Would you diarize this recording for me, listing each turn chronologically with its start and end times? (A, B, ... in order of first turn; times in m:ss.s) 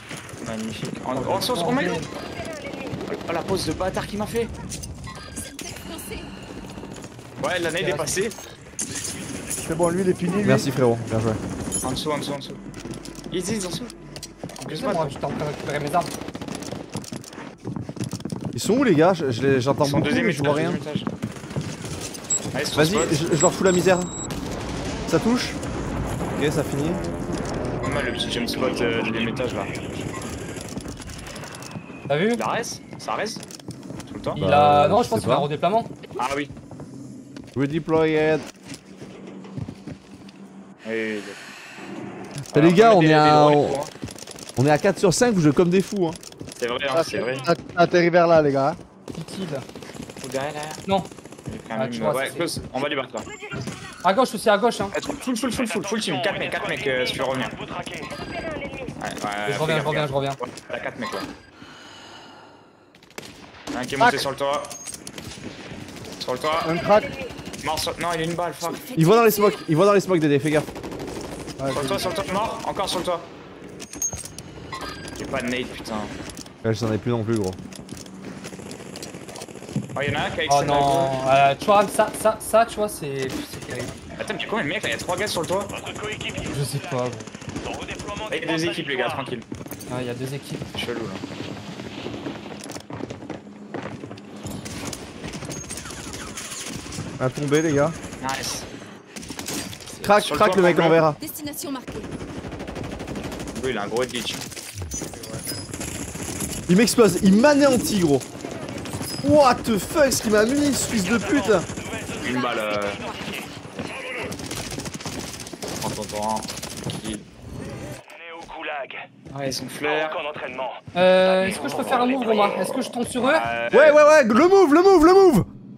0:00.4-0:02.0 A
0:01.1-0:02.1 B
0:03.1-0:04.5 A
0:05.4-0:06.3 C
0:07.4-0:08.4 A
0:07.8-0:08.1 B
0:09.6-0:10.7 D
0:10.4-0:11.4 E
0:11.8-0:12.6 A
0:13.3-0:13.9 A
0:14.6-0:15.2 A
0:14.7-0:16.1 B
0:18.6-0:20.8 E
0:19.8-0:21.1 A
0:22.5-0:23.2 A
0:22.7-0:24.1 E
0:25.1-0:25.6 E
0:26.4-0:27.0 E
0:27.8-0:30.1 A
0:28.4-0:30.0 F
0:32.1-0:32.4 B
0:32.4-0:33.4 A
0:34.1-0:34.4 A
0:34.4-0:35.9 B
0:34.4-0:35.5 E
0:36.2-0:36.5 A
0:37.6-0:38.4 E
0:40.8-0:41.4 A
0:42.5-0:43.8 E
0:42.5-0:43.9 A
0:44.6-0:46.2 E
0:46.6-0:47.5 A
0:46.9-0:48.8 D
0:49.1-0:49.7 B
0:50.2-0:50.8 A
0:51.5-0:53.3 A
0:51.7-0:52.6 B
0:54.0-0:55.0 B
0:54.9-0:57.6 A
0:55.2-0:58.1 F
0:59.0-1:01.3 A
0:59.4-1:00.4 B
1:03.7-1:04.8 A
1:04.0-1:04.2 D
1:06.2-1:06.7 A
1:06.6-1:07.2 D
1:07.6-1:08.8 A
1:08.7-1:09.6 C
1:09.0-1:10.7 E
1:11.6-1:12.1 D
1:11.7-1:13.3 A
1:15.2-1:16.1 A
1:16.6-1:17.6 E
1:20.0-1:21.2 A
1:20.5-1:24.0 B
1:24.2-1:25.7 A
1:25.7-1:29.3 F
1:26.5-1:27.3 B
1:28.3-1:29.4 A
1:29.9-1:30.7 B
1:30.7-1:31.2 A
1:37.2-1:38.0 E
1:38.2-1:38.7 A
1:39.9-1:41.0 A
1:40.0-1:41.2 E
1:41.2-1:42.1 C
1:43.5-1:44.4 A
1:46.7-1:48.2 E
1:49.2-1:51.7 E
1:50.8-1:54.3 F
1:52.2-1:53.0 A
1:52.2-1:53.4 C
1:55.8-1:57.3 A
1:58.1-1:59.1 F
1:59.3-2:00.2 A
1:59.8-2:02.6 F
2:00.9-2:03.4 B
2:01.4-2:04.0 A
2:03.7-2:05.5 E